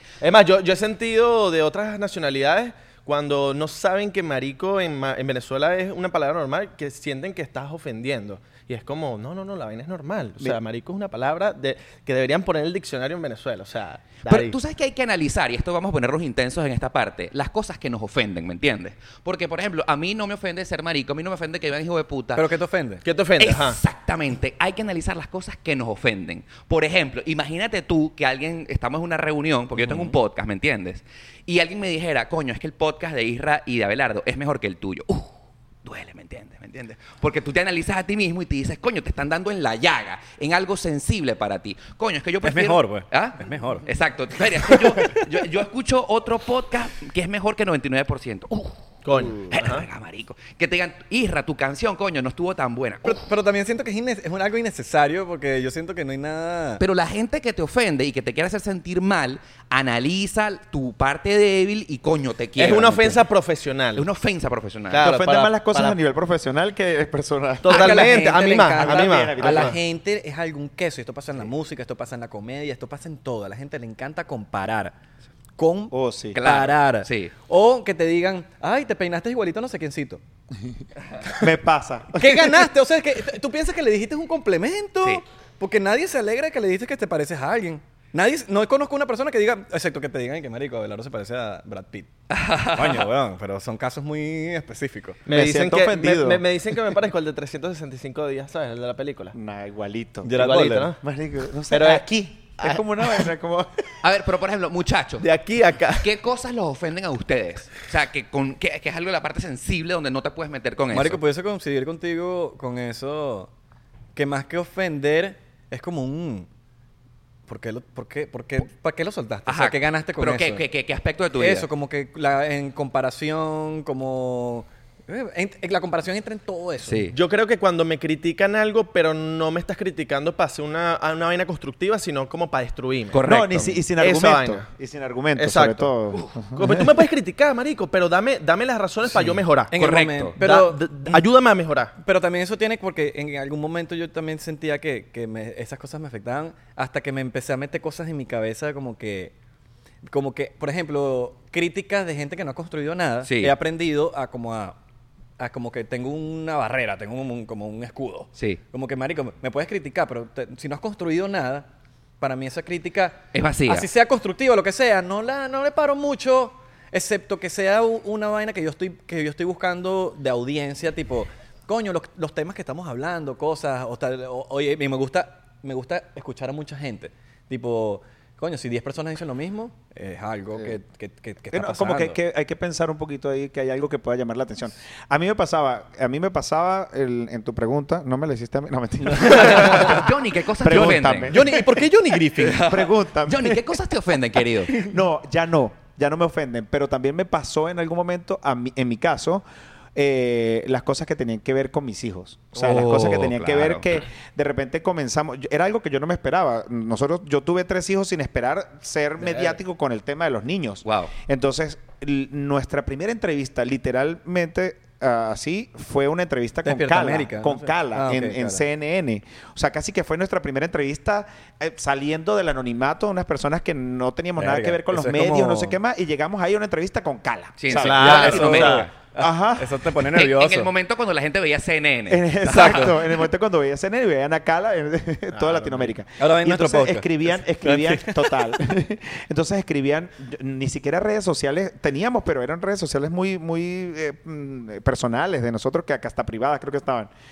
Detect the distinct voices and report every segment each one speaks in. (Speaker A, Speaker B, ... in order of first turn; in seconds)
Speaker A: 0.2-14.6, 23.0-23.8, 49.0-49.9, 62.5-64.1, 64.9-66.0, 67.6-69.8, 95.2-99.3, 100.3-101.0, 101.7-102.0, 102.6-103.3, 105.2-106.1, 127.1-134.7, 135.3-135.9, 136.5-139.7, 140.4-141.9, 209.2-209.6, 227.7-228.9, 235.3-235.9
Speaker B: 14.2-22.4, 23.4-35.3, 35.8-53.2, 56.8-63.2, 63.9-65.1, 76.3-77.3, 92.3-93.0, 104.0-105.3, 105.9-111.2, 119.5-121.7, 126.8-127.1, 133.1-133.8, 139.8-140.3, 153.2-153.5, 163.3-163.9, 189.2-191.3, 192.4-194.8, 202.5-203.9, 210.8-211.1, 227.6-228.9, 230.1-233.0
Speaker C: 22.3-23.0, 29.8-30.1, 42.4-43.9, 44.6-45.1, 53.0-56.8, 67.7-74.9, 75.6-80.2, 82.1-92.1, 92.7-95.2, 100.2-100.9, 110.9-113.5, 114.2-116.5, 117.5-120.6, 121.3-127.0, 139.7-141.2, 142.0-149.3, 150.1-154.8, 155.4-161.7, 162.2-182.2, 189.0-190.0, 190.7-192.9, 216.6-218.6, 224.4-225.8, 227.9-230.7, 232.5-232.9, 236.2-238.6
Speaker D: 65.0-69.8, 75.9-76.4, 81.3-82.6, 95.3-96.4, 99.3-100.4, 101.0-103.8, 133.2-136.9, 181.5-191.8, 192.4-193.6, 194.7-199.4, 199.9-229.8, 232.1-247.1